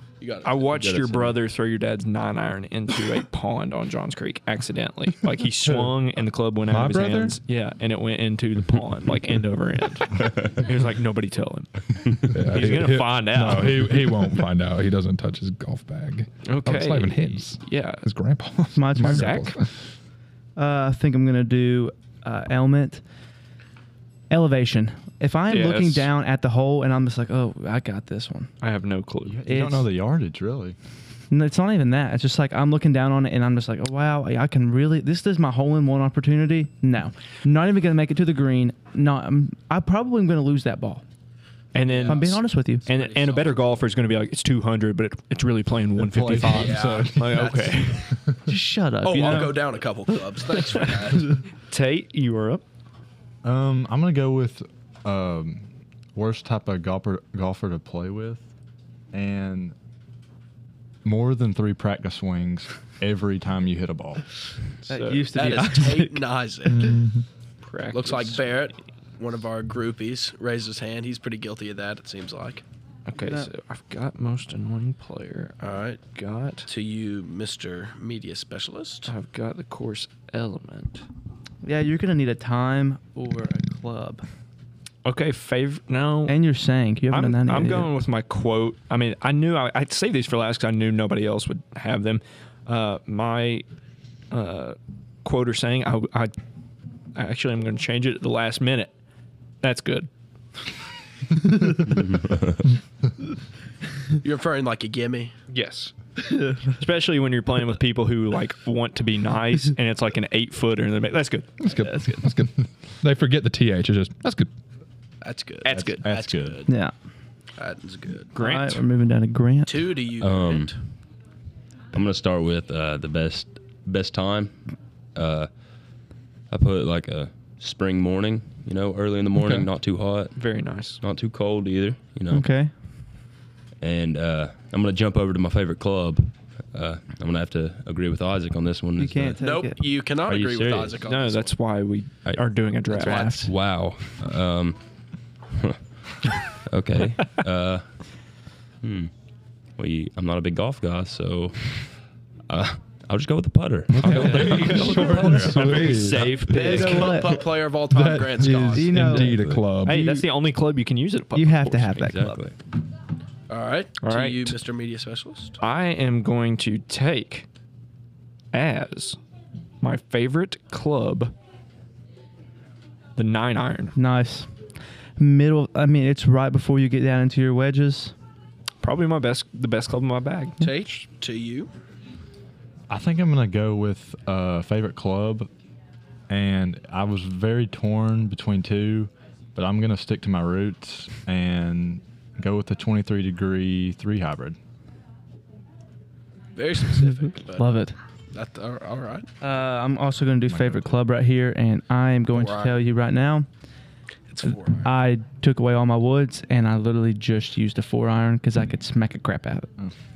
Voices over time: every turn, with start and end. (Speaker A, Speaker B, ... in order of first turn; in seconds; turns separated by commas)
Speaker A: 0.2-0.9, Speaker B: 0.4-14.3, Speaker C: 0.7-1.4, Speaker D: 6.7-7.4, Speaker D: 12.3-19.7, Speaker B: 16.5-18.1, Speaker E: 18.7-19.4, Speaker B: 19.0-19.6, Speaker E: 20.6-23.0, Speaker E: 24.3-28.5, Speaker B: 25.5-26.1, Speaker B: 28.6-29.4, Speaker F: 29.2-30.8, Speaker E: 29.5-29.9, Speaker E: 31.3-41.0, Speaker B: 41.7-48.1, Speaker A: 41.8-43.9, Speaker E: 42.1-42.9, Speaker F: 46.0-47.6, Speaker A: 46.5-48.1, Speaker E: 48.5-49.7, Speaker A: 49.0-51.4, Speaker B: 51.7-52.6, Speaker F: 53.4-58.5, Speaker F: 59.1-59.7, Speaker F: 61.0-64.2, Speaker B: 64.9-65.3, Speaker E: 64.9-66.2, Speaker A: 65.3-67.0, Speaker D: 66.7-67.2, Speaker B: 67.6-68.5, Speaker A: 67.9-72.6, Speaker B: 73.1-76.7, Speaker E: 73.2-73.5, Speaker A: 75.6-76.0, Speaker A: 76.7-79.1, Speaker B: 79.1-81.0, Speaker E: 81.6-84.2, Speaker B: 85.0-86.4, Speaker E: 86.3-87.9, Speaker B: 87.1-93.6, Speaker B: 94.3-96.3, Speaker B: 97.2-98.9, Speaker B: 99.6-100.1, Speaker C: 101.8-102.7, Speaker A: 104.2-105.3, Speaker B: 105.5-105.9, Speaker E: 106.2-106.8, Speaker B: 106.7-111.5, Speaker D: 111.6-114.5, Speaker E: 111.7-112.3, Speaker A: 115.2-116.7, Speaker B: 115.7-116.1, Speaker F: 115.7-116.6, Speaker E: 116.7-116.9, Speaker A: 117.6-118.3, Speaker B: 118.3-118.8, Speaker E: 118.4-119.9, Speaker A: 119.7-120.8, Speaker C: 120.2-120.7, Speaker C: 121.9-124.6, Speaker C: 125.2-125.5, Speaker C: 126.5-130.3, Speaker D: 129.4-129.7, Speaker B: 130.4-131.0, Speaker C: 131.0-132.5, Speaker E: 132.3-132.7, Speaker C: 133.8-139.4, Speaker E: 139.0-139.8, Speaker A: 139.4-141.5, Speaker C: 140.3-141.0, Speaker B: 141.1-143.5, Speaker C: 142.2-144.8, Speaker C: 145.5-145.8, Speaker C: 146.5-147.9, Speaker C: 148.8-149.1, Speaker C: 149.8-151.9, Speaker C: 152.5-156.1, Speaker D: 153.9-156.4, Speaker B: 154.0-157.1, Speaker E: 154.6-155.3, Speaker A: 156.5-159.2, Speaker E: 156.5-157.4, Speaker D: 157.9-160.2, Speaker E: 158.7-160.2, Speaker C: 159.2-159.7, Speaker B: 159.8-162.1, Speaker E: 161.3-162.4, Speaker C: 162.0-162.5, Speaker A: 163.5-165.6, Speaker B: 164.0-164.6, Speaker B: 165.6-167.5, Speaker B: 168.5-169.2, Speaker B: 169.8-171.3, Speaker B: 173.2-173.9, Speaker E: 173.9-174.5, Speaker E: 175.2-178.1, Speaker B: 178.8-181.0, Speaker A: 180.6-181.7, Speaker F: 182.9-185.5, Speaker F: 186.3-194.6, Speaker A: 196.6-197.7, Speaker E: 197.6-197.9, Speaker A: 198.3-199.3, Speaker E: 199.4-203.5, Speaker F: 200.5-200.9, Speaker A: 202.3-202.8, Speaker A: 204.3-204.9, Speaker E: 204.4-209.7